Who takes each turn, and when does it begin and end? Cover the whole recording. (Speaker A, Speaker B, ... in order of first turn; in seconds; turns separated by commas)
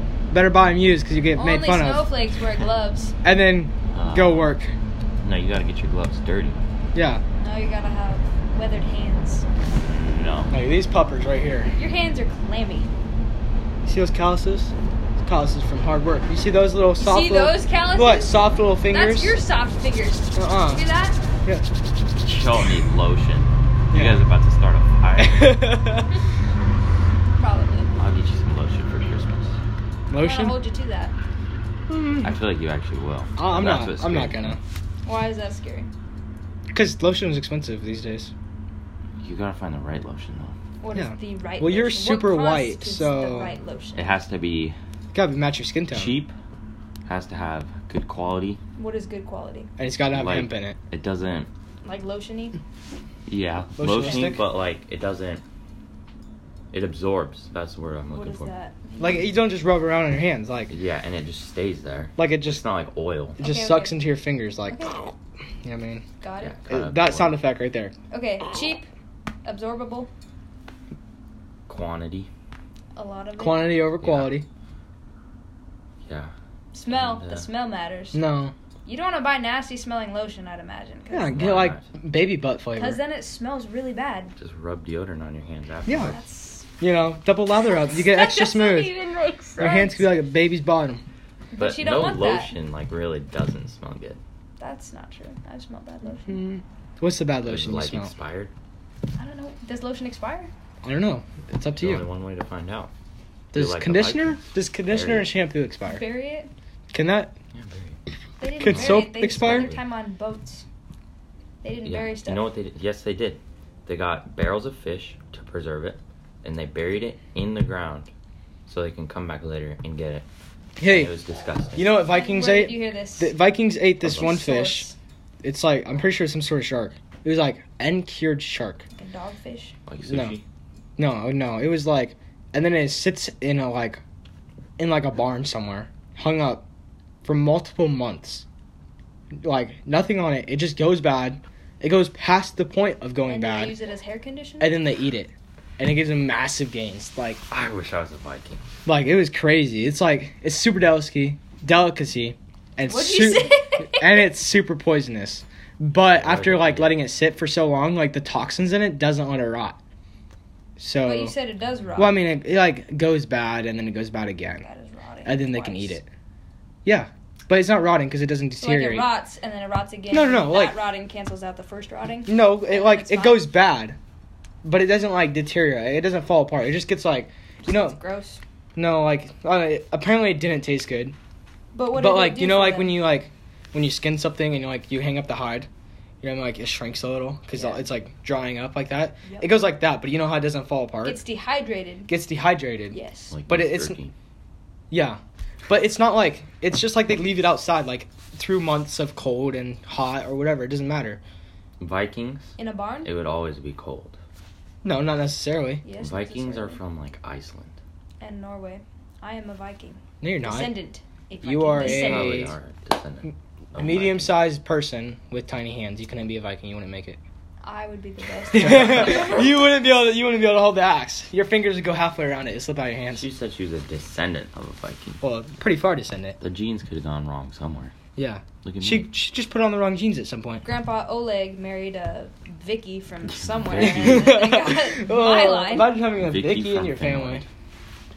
Speaker A: 0.3-2.1, Speaker B: 1.4-3.1, Speaker A: 3.2-4.7, Speaker C: 3.9-4.5, Speaker C: 5.2-6.6, Speaker A: 6.9-7.2, Speaker B: 7.4-9.4, Speaker C: 9.8-10.5, Speaker A: 10.5-11.7, Speaker B: 11.8-12.9, Speaker A: 13.8-19.4, Speaker B: 17.0-21.2, Speaker A: 20.3-20.8, Speaker C: 22.2-25.6, Speaker A: 23.9-24.2, Speaker A: 25.2-26.1, Speaker B: 27.4-27.9, Speaker C: 27.9-29.6, Speaker A: 30.1-30.6, Speaker B: 30.2-31.1, Speaker A: 31.9-32.3, Speaker C: 32.2-34.6, Speaker A: 33.4-34.6, Speaker B: 35.0-35.9, Speaker A: 36.7-38.3, Speaker C: 39.2-40.5, Speaker B: 40.8-44.2, Speaker A: 40.9-43.5, Speaker C: 43.9-44.8, Speaker A: 45.1-46.2, Speaker C: 45.9-46.3, Speaker C: 47.0-48.6, Speaker B: 48.8-49.7, Speaker A: 49.8-50.8, Speaker C: 50.1-51.5, Speaker B: 51.8-52.6, Speaker C: 53.3-55.4, Speaker A: 53.8-54.4, Speaker B: 54.0-54.4, Speaker C: 56.7-58.5, Speaker B: 58.1-59.3, Speaker A: 59.0-60.7, Speaker C: 60.7-63.4, Speaker A: 62.2-62.6, Speaker B: 63.4-64.0, Speaker A: 63.4-66.0, Speaker B: 64.7-65.0, Speaker B: 66.2-66.6, Speaker C: 66.4-67.4, Speaker A: 66.7-67.9, Speaker B: 68.1-68.9, Speaker B: 69.4-70.1, Speaker C: 71.7-72.3, Speaker B: 72.9-73.8, Speaker A: 73.4-74.4, Speaker C: 74.0-74.4, Speaker C: 76.0-76.3, Speaker B: 76.7-78.2, Speaker C: 76.9-77.5, Speaker A: 78.1-78.5, Speaker B: 78.8-81.4, Speaker A: 81.1-83.0, Speaker C: 81.3-81.9, Speaker B: 82.7-84.3, Speaker C: 84.4-86.2, Speaker A: 85.9-86.1, Speaker B: 85.9-86.7, Speaker A: 86.8-88.9, Speaker B: 87.6-90.1, Speaker A: 89.6-91.0, Speaker B: 91.5-92.5, Speaker C: 91.6-94.2, Speaker B: 94.6-96.4, Speaker A: 96.2-98.1, Speaker C: 97.4-98.5, Speaker B: 99.2-100.5, Speaker A: 100.8-102.0, Speaker C: 101.7-102.9, Speaker A: 103.5-106.0, Speaker C: 103.5-105.3, Speaker B: 105.8-106.5, Speaker A: 106.9-107.3, Speaker C: 107.5-108.0, Speaker B: 108.4-110.6, Speaker A: 108.6-109.7, Speaker C: 108.6-109.8, Speaker B: 111.6-112.5, Speaker C: 111.8-118.1, Speaker C: 118.7-120.2, Speaker A: 120.8-121.1, Speaker C: 120.8-121.9, Speaker A: 121.8-124.9, Speaker B: 122.0-123.3, Speaker B: 124.0-124.9, Speaker A: 125.4-128.8, Speaker B: 128.9-129.8, Speaker C: 129.9-130.4, Speaker A: 130.1-130.3, Speaker A: 131.0-134.0, Speaker A: 134.8-136.6, Speaker A: 137.2-138.4, Speaker A: 139.4-143.8, Speaker B: 143.2-144.8, Speaker A: 144.6-147.4, Speaker C: 147.5-148.6, Speaker A: 148.8-159.8, Speaker B: 152.8-154.3, Speaker C: 156.1-157.0, Speaker A: 160.8-161.3, Speaker B: 161.0-162.2, Speaker A: 161.9-164.7, Speaker B: 164.6-166.0, Speaker A: 165.2-166.1, Speaker A: 166.8-169.1, Speaker B: 168.6-173.5, Speaker A: 170.1-170.8, Speaker A: 172.3-174.0, Speaker A: 174.6-178.0, Speaker B: 177.6-178.4, Speaker A: 178.8-181.2, Speaker B: 181.7-183.0, Speaker A: 181.9-185.7, Speaker A: 186.2-191.2, Speaker B: 187.5-187.8, Speaker B: 189.2-189.6, Speaker B: 191.0-192.1, Speaker A: 192.1-194.0, Speaker B: 192.9-193.3, Speaker C: 193.3-194.1, Speaker A: 194.9-201.2, Speaker C: 201.8-204.2, Speaker B: 202.6-203.1, Speaker A: 204.8-205.8, Speaker B: 205.8-206.8, Speaker C: 206.0-207.8, Speaker B: 208.2-212.5, Speaker A: 210.2-210.7, Speaker A: 211.4-212.5, Speaker C: 211.8-214.4, Speaker A: 213.7-217.2, Speaker B: 217.6-219.6, Speaker A: 218.5-223.3, Speaker C: 218.9-219.3, Speaker C: 223.1-225.2, Speaker A: 225.2-226.4, Speaker C: 226.4-227.9, Speaker A: 228.2-230.6, Speaker C: 228.6-229.1, Speaker B: 230.6-235.9, Speaker C: 233.3-234.4, Speaker A: 233.8-237.4, Speaker C: 236.1-237.4